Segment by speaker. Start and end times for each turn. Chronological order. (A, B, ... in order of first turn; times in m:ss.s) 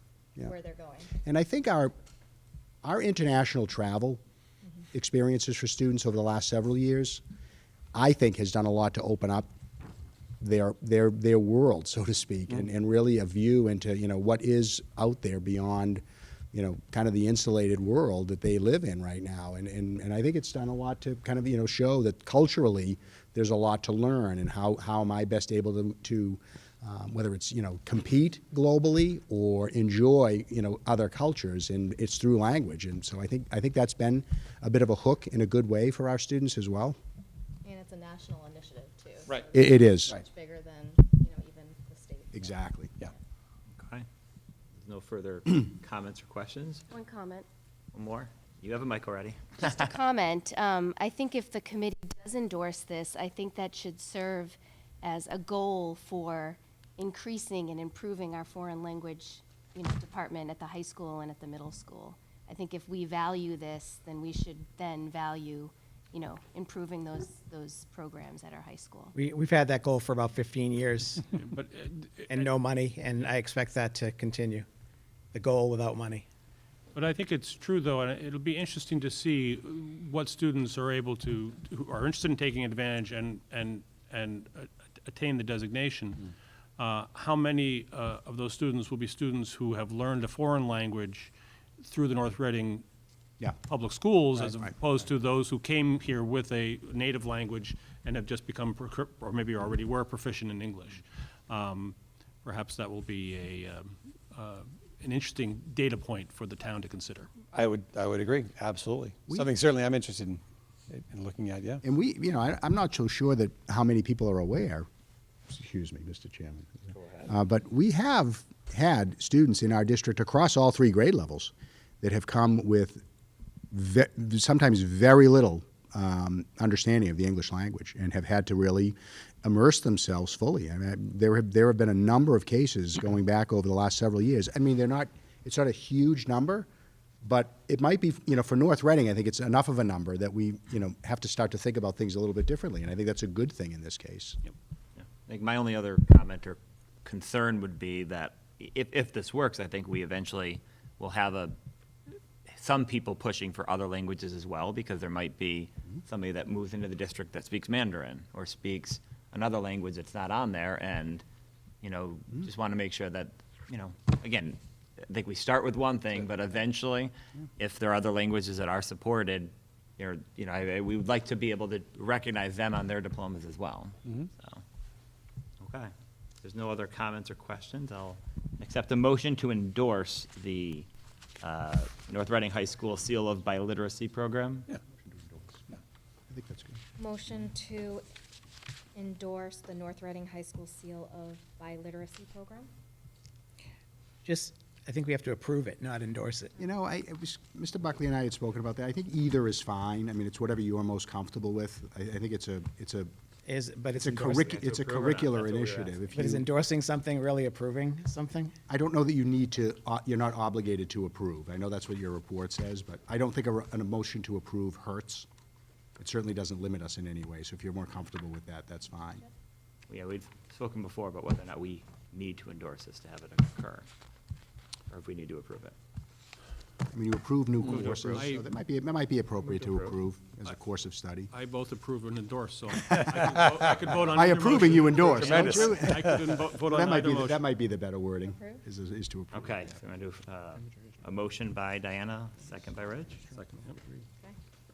0:00.4-0:01.2 A
0:01.2-0:01.9 B
0:02.8-0:04.2 B
0:04.9-0:07.2 B
0:07.9-0:09.5 B
0:10.4-0:16.0 B
0:16.5-0:37.0 B
0:37.6-0:43.1 A
0:39.5-0:40.2 B
0:42.3-0:42.9 B
0:43.7-0:44.0 C
0:44.8-0:46.9 C
0:46.9-0:47.5 D
0:47.9-0:49.9 C
0:49.6-1:09.1 D
1:09.1-1:11.2 E
1:11.4-1:12.5 F
1:12.3-1:14.7 E
1:15.3-1:16.3 E
1:17.0-1:32.8 F
1:33.7-1:47.3 F
1:47.5-1:51.8 G
1:51.8-1:54.9 B
1:55.5-2:03.0 B
1:57.0-1:57.3 C
2:03.7-2:16.7 B
2:17.2-2:24.4 B
2:25.0-2:31.6 C
2:32.5-2:41.2 C
2:41.8-2:54.6 C
2:55.6-2:55.9 C
2:56.4-3:00.9 C
3:01.4-3:04.7 C
3:05.0-3:05.8 B
3:06.3-3:06.8 B
3:07.0-3:08.0 A
3:09.0-3:12.7 A
3:14.2-3:16.6 E
3:16.6-3:23.1 B
3:23.4-3:24.5 E
3:24.0-3:26.5 B
3:24.4-3:26.1 C
3:26.1-3:28.6 E
3:28.7-3:35.3 B
3:36.0-3:39.3 B
3:39.9-3:43.9 C
3:44.9-3:45.8 C
3:46.9-3:51.3 B
3:47.6-3:48.4 F
3:49.5-3:49.9 F
3:51.3-3:57.4 F
3:53.0-3:53.5 G
3:54.1-3:59.7 B
3:55.2-3:56.2 G
3:58.2-3:58.6 A
3:59.3-4:03.3 C
4:03.3-4:04.0 F